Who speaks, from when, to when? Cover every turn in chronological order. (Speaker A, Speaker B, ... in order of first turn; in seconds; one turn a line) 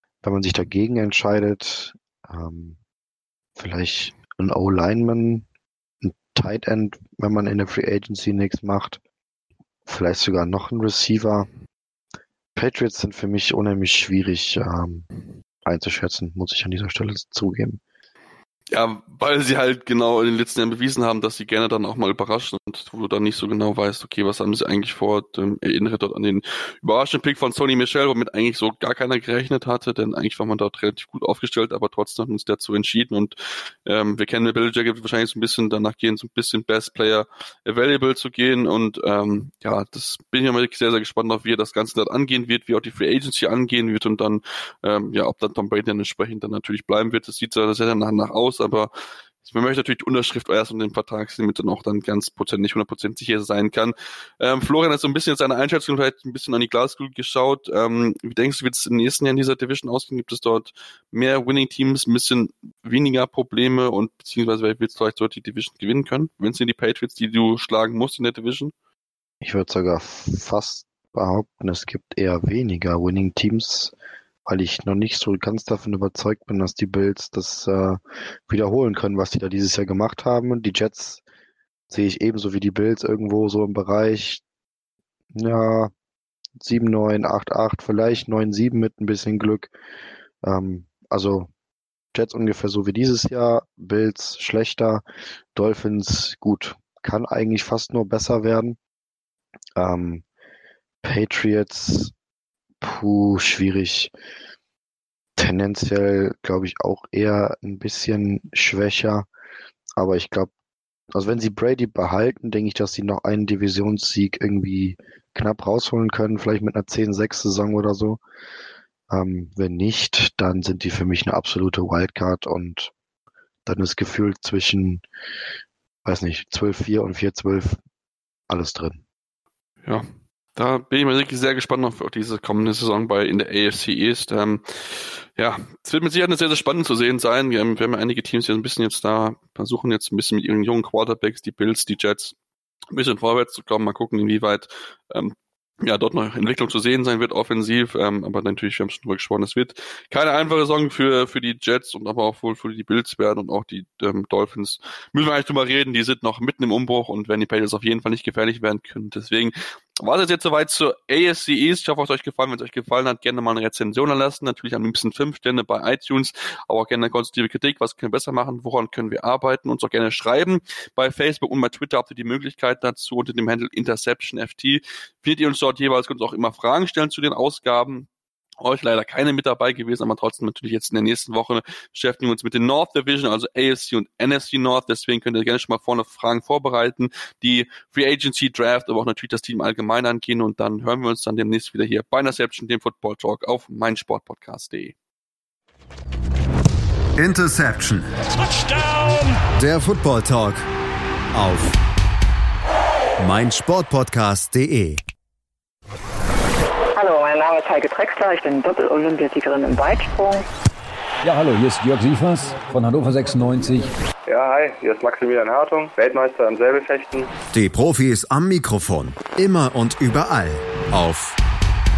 Speaker A: 0.2-2.8
Speaker A: 3.6-5.5
Speaker A: 6.0-9.0
Speaker A: 9.9-11.5
Speaker A: 12.6-15.1
Speaker A: 15.6-17.8
Speaker B: 18.7-48.9
Speaker B: 49.4-68.7
Speaker A: 69.4-73.9
Speaker A: 74.5-81.2
Speaker A: 81.9-84.4
Speaker A: 85.4-85.9
Speaker A: 86.6-89.7
Speaker A: 90.4-91.5
Speaker A: 92.1-95.0
Speaker A: 95.5-98.8
Speaker A: 99.8-100.2
Speaker A: 101.0-102.1
Speaker A: 102.8-104.1
Speaker A: 105.4-109.3
Speaker A: 110.0-110.5
Speaker A: 111.1-118.2
Speaker A: 119.1-122.9
Speaker A: 123.7-125.0
Speaker A: 126.0-127.8
Speaker A: 128.5-129.0
Speaker B: 130.6-142.4
Speaker B: 142.9-178.1
Speaker B: 178.6-194.9
Speaker C: 197.2-198.1
Speaker C: 199.6-200.6
Speaker C: 201.3-201.8
Speaker C: 203.2-205.0
Speaker D: 207.0-210.4
Speaker E: 211.2-213.9
Speaker F: 214.3-217.3
Speaker C: 217.5-221.4